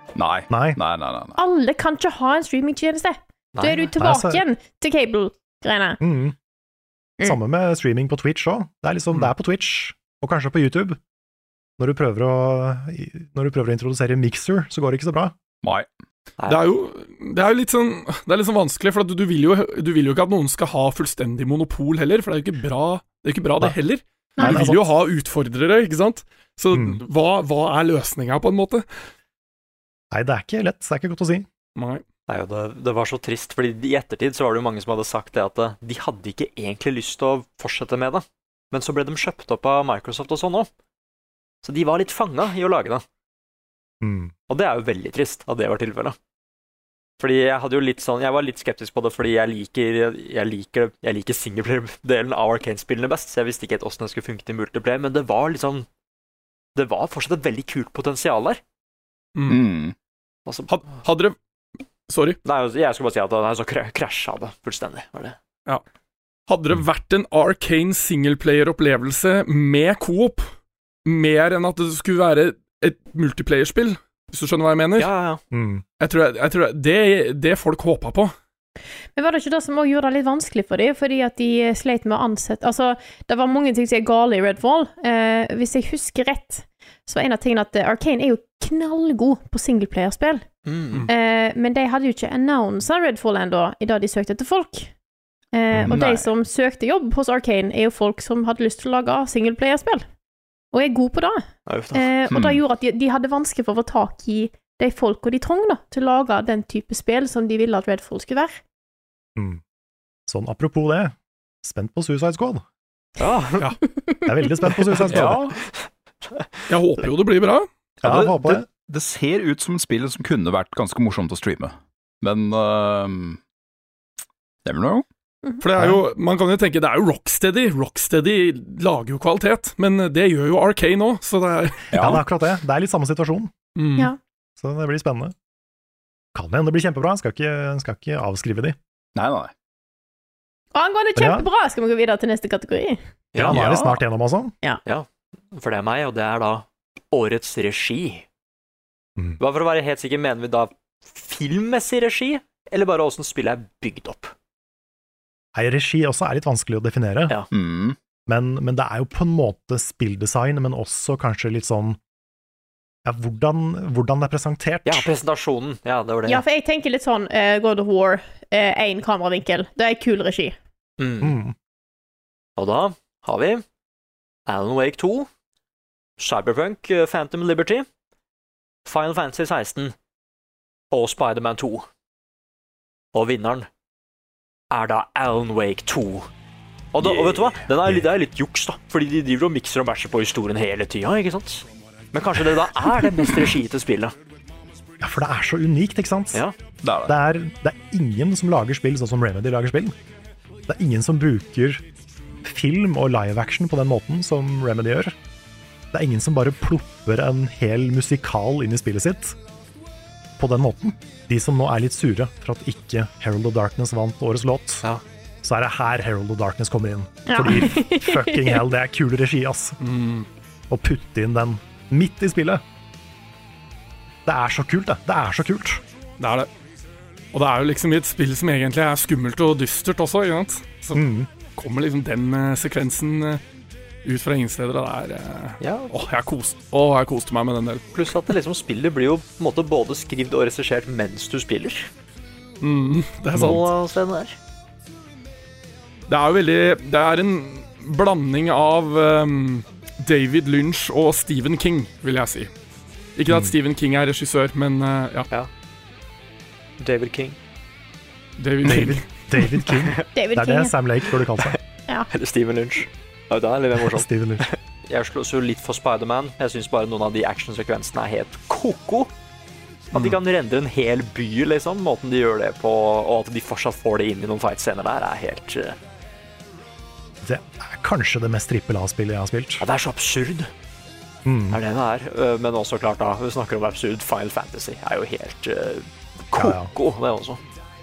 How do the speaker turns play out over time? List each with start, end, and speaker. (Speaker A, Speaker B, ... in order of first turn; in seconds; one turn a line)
Speaker A: 0.2-1.4
Speaker B: 0.5-0.8
Speaker C: 1.4-6.0
Speaker D: 3.5-3.9
Speaker B: 4.0-4.4
Speaker B: 6.0-6.3
Speaker B: 7.2-11.0
Speaker B: 11.8-15.3
Speaker D: 16.4-16.7
Speaker E: 16.5-28.9
Speaker B: 24.4-24.8
Speaker B: 26.7-27.0
Speaker B: 30.1-31.5
Speaker E: 31.8-32.0
Speaker D: 32.3-40.7
Speaker D: 41.6-43.0
Speaker B: 44.0-44.3
Speaker D: 44.5-46.2
Speaker D: 47.2-55.9
Speaker D: 56.8-58.6
Speaker E: 59.4-59.6
Speaker A: 59.5-60.0
Speaker D: 60.5-60.8
Speaker E: 60.7-61.4
Speaker E: 62.1-62.4
Speaker D: 62.4-65.4
Speaker E: 66.5-70.5
Speaker E: 71.0-75.1
Speaker D: 75.0-75.4
Speaker B: 75.5-75.8
Speaker E: 76.0-78.3
Speaker C: 79.2-90.5
Speaker D: 90.7-91.1
Speaker C: 91.1-94.9
Speaker C: 95.5-100.0
Speaker A: 95.8-96.2
Speaker C: 100.7-108.6
Speaker D: 101.7-102.1
Speaker A: 102.3-102.6
Speaker B: 109.4-109.6
Speaker B: 110.3-112.7
Speaker D: 113.2-113.7
Speaker C: 113.8-114.7
Speaker B: 114.3-115.4
Speaker A: 115.1-115.6
Speaker D: 115.3-116.7
Speaker E: 116.7-117.7
Speaker A: 118.0-123.4
Speaker B: 118.0-118.7
Speaker A: 124.7-125.0
Speaker E: 125.6-131.9
Speaker B: 125.8-126.0
Speaker A: 131.9-132.2
Speaker B: 131.9-133.5
Speaker E: 133.8-134.1
Speaker B: 134.6-135.3
Speaker B: 136.3-138.8
Speaker A: 139.2-139.5
Speaker C: 140.8-143.0
Speaker B: 141.2-141.5
Speaker D: 143.3-143.7
Speaker B: 143.4-144.5
Speaker A: 143.4-144.0
Speaker D: 144.8-148.3
Speaker D: 149.4-154.3
Speaker B: 155.6-157.4
Speaker A: 157.5-158.0
Speaker B: 158.3-162.0
Speaker B: 163.1-165.1
Speaker D: 164.9-166.4
Speaker C: 166.3-170.6
Speaker D: 171.0-171.4
Speaker B: 171.2-171.6
Speaker D: 172.6-173.6
Speaker D: 174.5-175.3
Speaker D: 176.2-177.9
Speaker D: 178.8-179.9
Speaker D: 180.9-181.9
Speaker D: 183.1-183.7
Speaker D: 184.7-186.3
Speaker D: 186.9-194.2
Speaker A: 187.0-187.6
Speaker B: 195.0-196.4
Speaker A: 196.8-197.2
Speaker B: 197.1-200.0
Speaker B: 200.7-201.8
Speaker B: 202.4-205.2
Speaker B: 205.9-209.4
Speaker B: 210.4-214.9
Speaker B: 215.4-219.8
Speaker C: 217.3-218.6
Speaker E: 219.8-220.3
Speaker B: 220.7-222.6
Speaker B: 224.3-225.8
Speaker E: 226.2-226.5
Speaker E: 227.3-231.0
Speaker B: 230.9-231.3
Speaker E: 231.6-233.4
Speaker E: 234.0-237.9
Speaker D: 235.6-235.9
Speaker D: 237.9-241.9
Speaker E: 242.6-243.7
Speaker D: 243.3-244.4
Speaker E: 246.1-252.5
Speaker E: 253.2-255.3
Speaker D: 256.8-257.4
Speaker E: 258.4-259.1
Speaker B: 258.6-261.6
Speaker D: 259.8-260.1
Speaker C: 260.1-260.8
Speaker D: 262.1-269.1
Speaker B: 263.9-264.4
Speaker D: 269.9-275.8
Speaker B: 277.2-279.6
Speaker D: 279.6-280.5
Speaker B: 281.2-281.6
Speaker D: 281.5-287.4
Speaker B: 286.4-286.7